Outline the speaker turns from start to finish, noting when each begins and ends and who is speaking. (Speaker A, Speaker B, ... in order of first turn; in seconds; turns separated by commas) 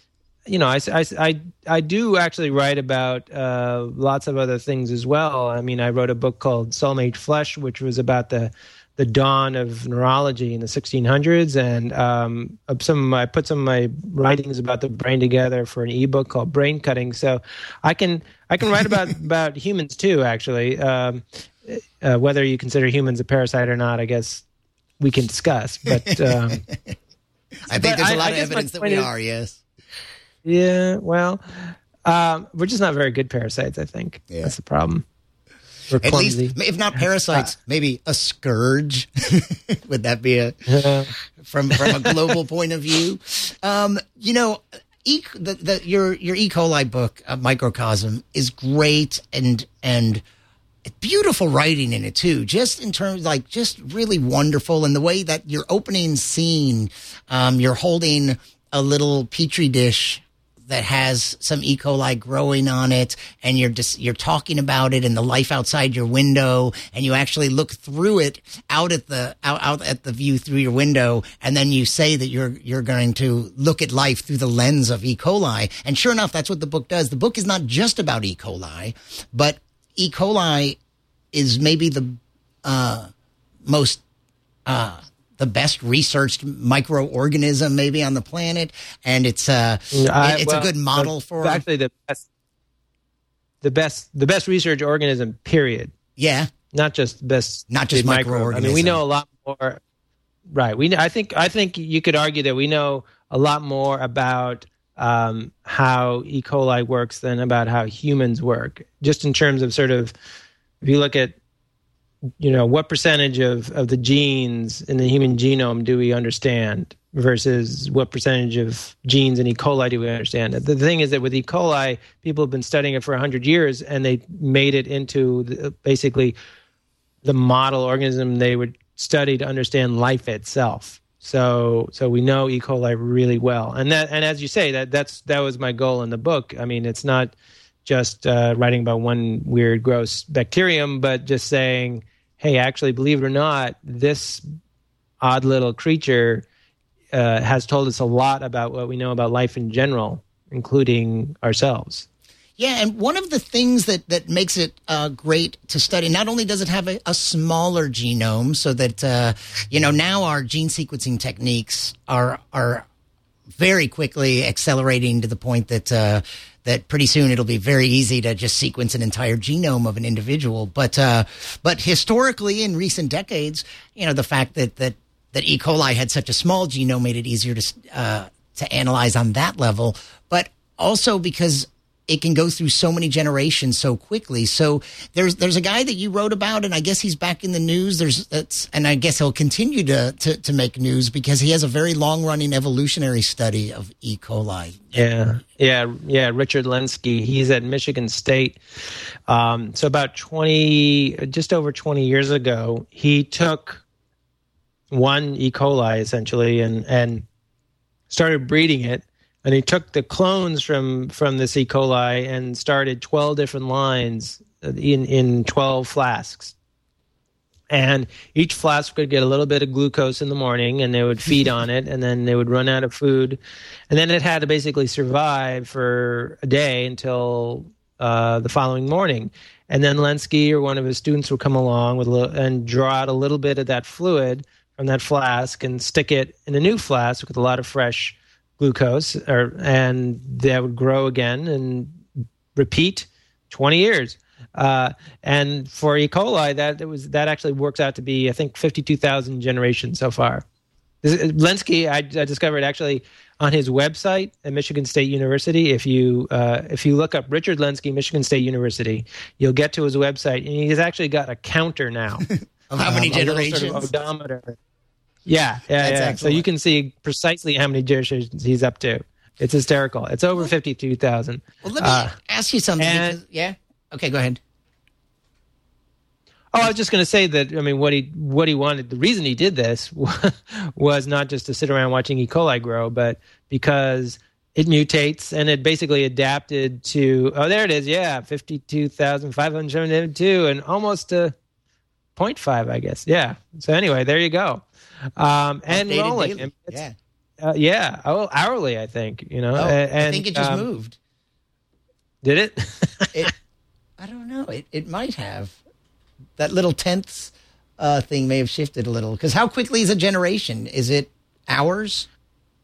Speaker A: 0.5-24.4, Speaker A: 25.0-26.6, Speaker B: 26.1-26.9, Speaker B: 27.7-29.6, Speaker A: 27.7-29.1, Speaker A: 30.4-35.0, Speaker A: 35.9-36.5, Speaker B: 36.0-40.6, Speaker A: 40.7-41.1, Speaker B: 41.4-50.2, Speaker A: 41.7-42.1, Speaker B: 50.9-80.8, Speaker B: 81.3-83.1, Speaker B: 83.6-84.0, Speaker B: 84.7-91.6, Speaker A: 89.9-92.2, Speaker A: 93.6-95.9, Speaker B: 96.2-96.5, Speaker A: 96.7-99.8, Speaker B: 97.7-99.0, Speaker A: 100.5-110.1, Speaker A: 110.8-111.3, Speaker A: 112.4-126.3, Speaker A: 127.2-137.3, Speaker A: 137.8-144.4, Speaker A: 145.2-146.4, Speaker A: 147.1-152.1, Speaker B: 152.6-162.8, Speaker B: 163.5-195.0, Speaker A: 194.9-198.6, Speaker A: 199.3-203.8, Speaker A: 204.9-207.2, Speaker A: 208.1-216.5, Speaker A: 217.7-223.4, Speaker A: 223.9-250.4, Speaker A: 251.0-264.6, Speaker B: 262.3-263.9, Speaker A: 265.2-272.1, Speaker B: 265.8-266.4, Speaker B: 271.6-274.4, Speaker A: 272.8-273.2, Speaker A: 276.5-291.3, Speaker A: 292.1-294.6, Speaker A: 295.2-296.8, Speaker B: 295.7-296.9, Speaker A: 297.4-300.6, Speaker B: 299.6-301.0, Speaker A: 302.2-303.3, Speaker B: 304.0-305.5, Speaker B: 306.4-312.1